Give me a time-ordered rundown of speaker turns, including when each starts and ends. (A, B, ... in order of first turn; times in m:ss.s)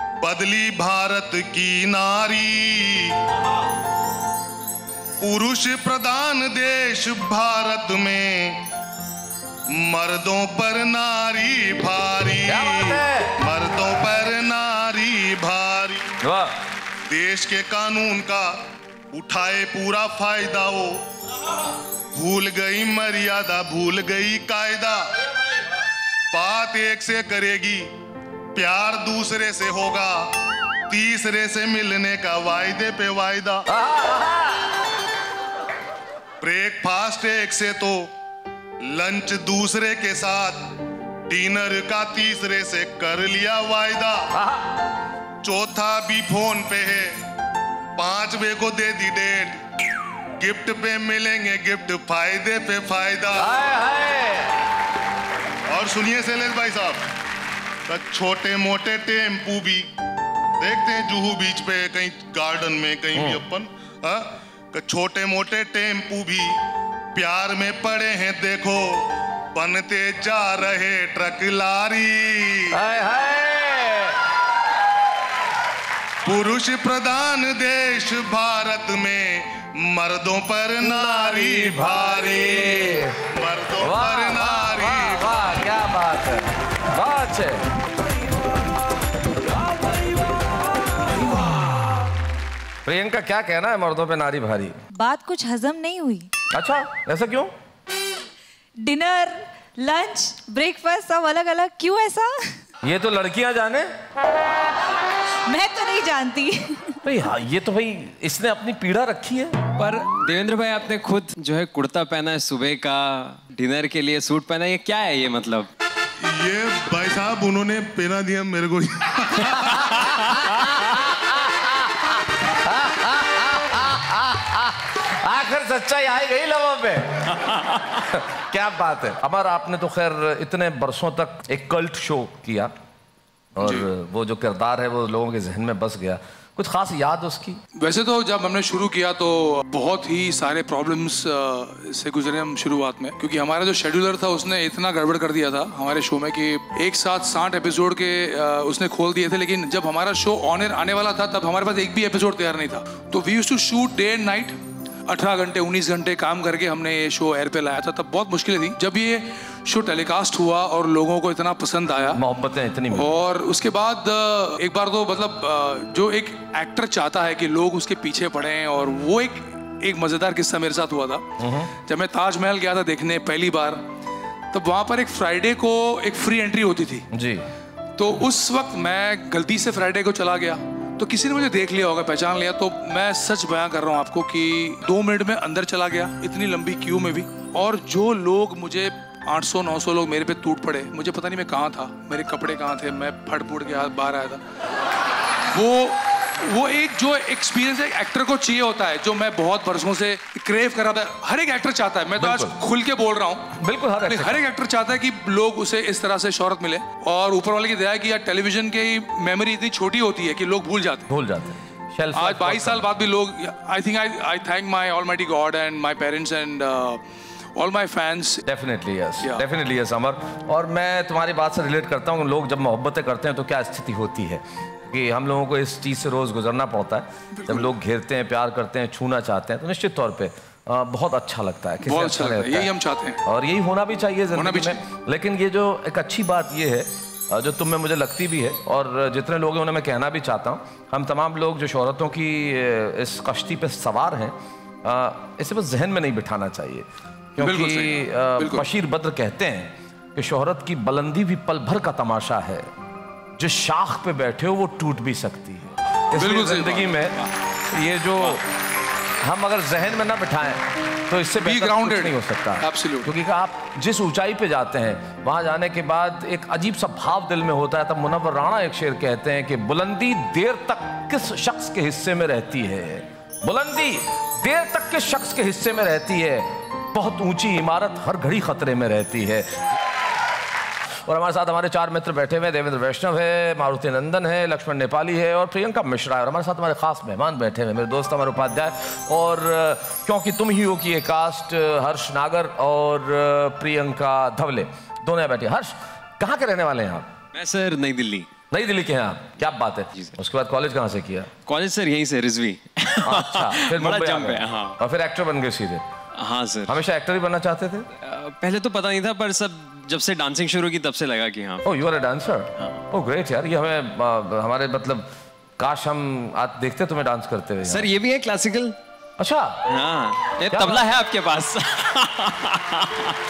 0:00.2-0:03.2 A
0:05.2-0:08.6 A
0:09.7-0:16.1 A
0:12.5-0:13.4 B
0:16.2-0:16.6 B
0:17.1-0:18.6 A
0:19.1-0:21.0 A
0:22.1-0:25.1 A
0:26.3-0:27.9 A
0:28.5-0:30.3 A
0:30.9-0:33.6 A
0:33.7-0:34.7 B
0:36.4-0:38.1 A
0:38.8-0:40.7 A
0:41.3-0:44.2 A
0:44.3-0:44.7 B
0:45.4-0:47.2 A
0:48.0-0:49.6 A
0:50.4-0:53.5 A
0:53.4-0:54.6 B
0:55.7-0:57.1 A
0:57.9-0:59.9 A
1:00.6-1:06.6 A
1:03.1-1:03.4 B
1:07.2-1:12.8 A
1:12.7-1:14.2 B
1:16.2-1:25.3 A
1:20.8-1:23.2 B
1:23.8-1:27.7 B
1:32.9-1:34.8 B
1:35.0-1:36.3 C
1:36.5-1:37.5 B
1:38.8-1:42.3 C
1:42.8-1:43.9 B
1:45.5-1:47.0 C
1:47.0-1:49.6 B
1:49.8-1:55.7 D
1:56.2-2:00.4 A
1:59.6-2:12.7 B
2:13.6-2:17.6 B
2:13.6-2:13.9 E
2:17.8-2:42.2 E
2:42.1-2:43.1 B
2:42.9-2:51.2 E
2:51.4-2:51.7 B
2:51.9-2:53.8 E
2:54.5-2:57.1 E
2:57.1-2:57.5 B
2:58.0-3:14.4 E
3:15.5-3:23.5 E
3:22.2-3:22.5 B
3:23.6-3:24.4 B
3:24.1-3:31.1 E
3:31.1-3:32.9 B
3:32.1-3:37.0 E
3:37.6-3:38.4 E
3:38.4-3:52.7 B
3:47.4-3:47.7 E
3:51.8-3:53.2 E
3:53.2-4:12.7 B
3:54.3-3:54.8 E
4:07.4-4:08.7 E
4:13.4-4:17.2 B
4:16.2-4:17.2 E
4:17.7-4:18.4 B
4:19.2-4:39.6 B
4:21.4-4:23.1 E
4:41.1-4:57.1 B
4:57.3-4:58.3 D
4:58.5-5:01.3 B
5:01.5-5:04.8 D
5:03.0-5:05.8 B
5:06.2-5:06.8 D
5:06.7-5:07.9 B
5:08.0-5:11.7 D
5:11.6-5:15.1 B
5:15.6-5:17.9 B
5:17.6-5:18.8 D
5:19.2-5:19.7 B
5:19.7-5:23.2 D
5:20.5-5:20.9 B